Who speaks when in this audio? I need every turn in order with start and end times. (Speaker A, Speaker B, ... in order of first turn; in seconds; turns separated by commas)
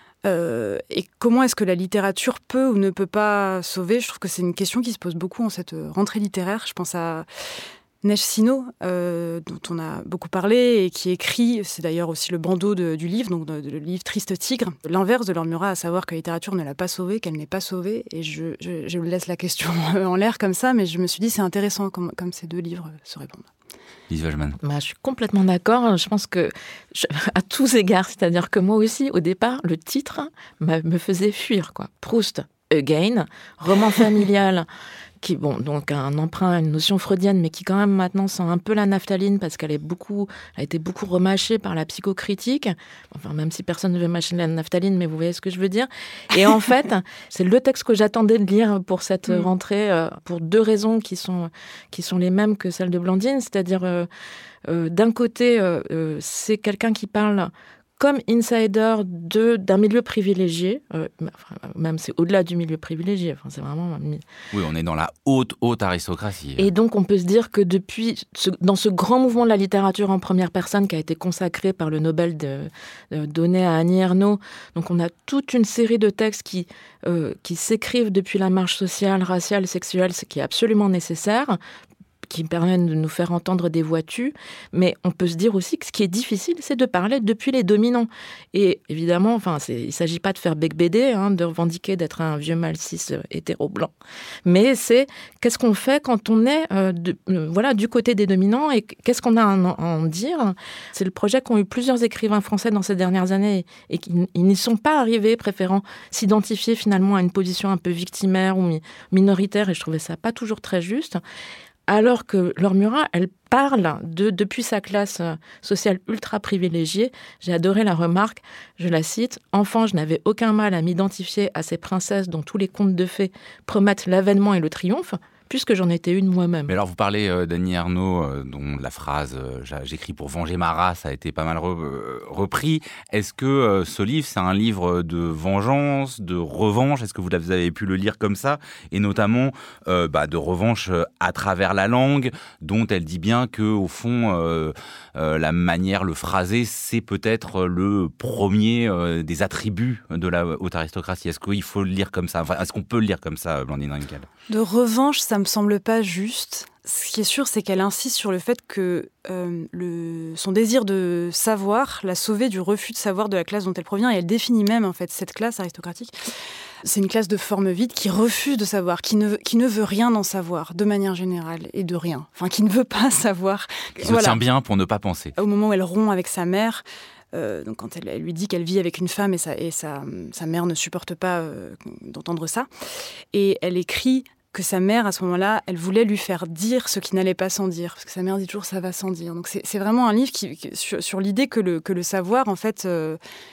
Speaker A: 0.2-7.3, Speaker A: 8.0-23.5, Speaker B: 24.1-24.6, Speaker C: 24.6-34.7, Speaker C: 35.2-54.1, Speaker C: 54.7-64.2, Speaker B: 64.5-66.7, Speaker C: 66.6-81.6, Speaker C: 82.3-93.9, Speaker C: 94.5-111.2, Speaker C: 111.9-126.7, Speaker B: 126.7-154.3, Speaker A: 154.5-166.2, Speaker A: 166.8-174.4, Speaker B: 174.0-175.3, Speaker A: 175.3-182.7, Speaker A: 183.3-193.2